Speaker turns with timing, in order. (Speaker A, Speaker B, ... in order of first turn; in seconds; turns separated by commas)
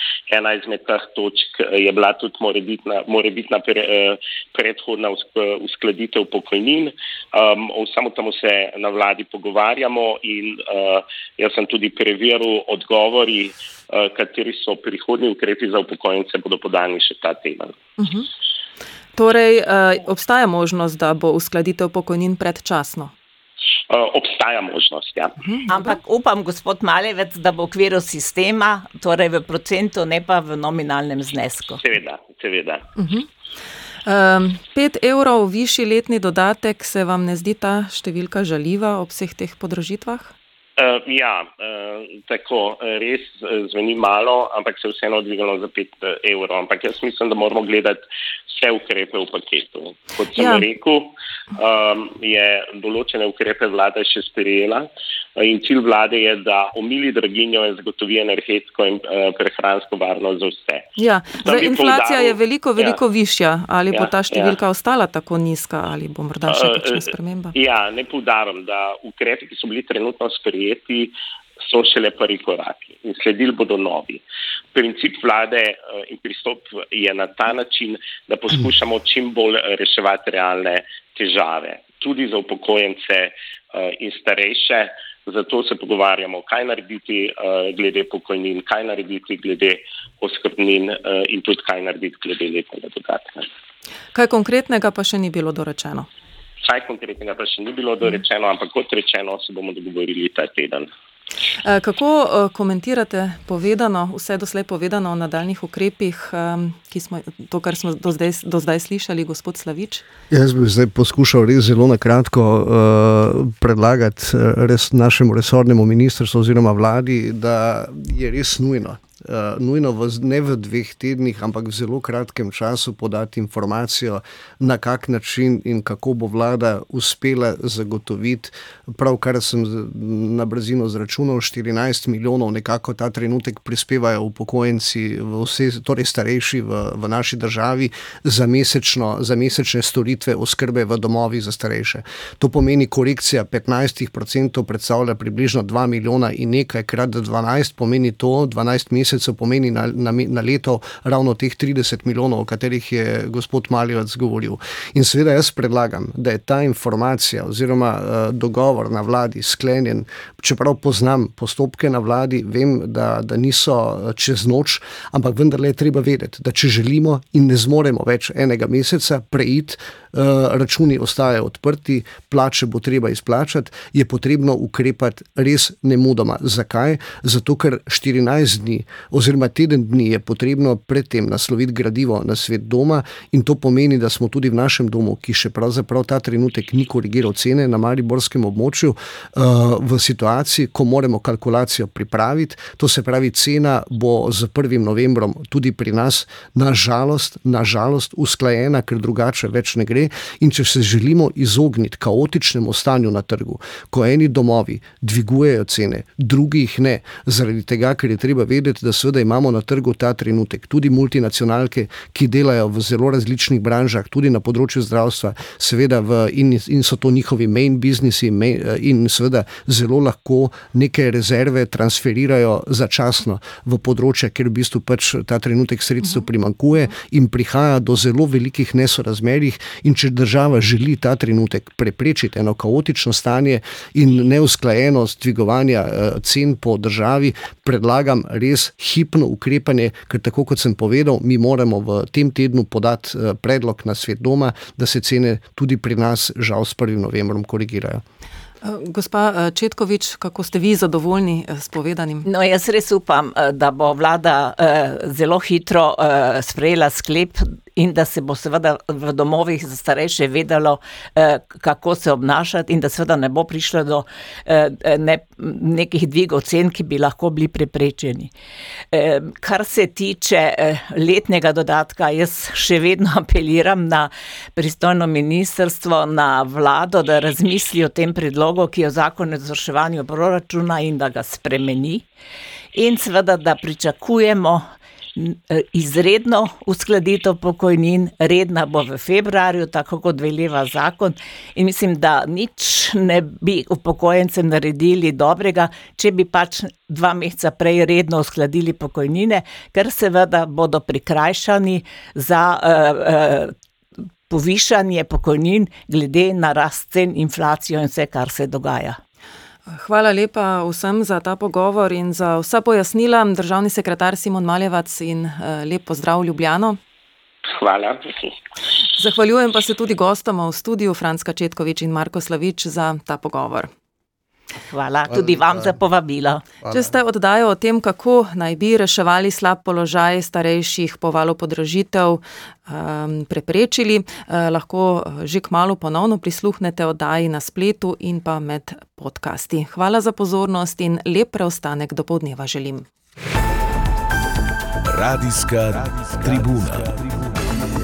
Speaker A: 0.3-17.8, Speaker B: 18.0-18.3, Speaker B: 19.2-23.1, Speaker A: 23.9-25.4, Speaker B: 25.4-25.9, Speaker C: 25.7-31.8, Speaker A: 31.8-32.8, Speaker B: 33.0-33.3, Speaker B: 34.1-40.3, Speaker A: 40.8-60.9, Speaker B: 50.4-50.6, Speaker B: 61.0-67.5, Speaker A: 61.4-63.0, Speaker A: 63.9-64.6, Speaker A: 66.5-74.2, Speaker A: 74.7-93.4, Speaker B: 94.1-96.1, Speaker A: 96.6-100.9, Speaker B: 101.6-110.0, Speaker D: 110.3-248.0, Speaker B: 248.6-252.2, Speaker C: 252.2-268.3, Speaker C: 268.9-282.1, Speaker C: 282.8-284.6, Speaker C: 285.1-303.5, Speaker C: 304.3-309.0, Speaker B: 309.7-316.8, Speaker A: 317.5-318.4, Speaker B: 319.0-323.7, Speaker C: 324.7-326.4, Speaker D: 325.1-325.7, Speaker D: 326.6-326.9, Speaker B: 326.7-342.9, Speaker E: 344.9-347.6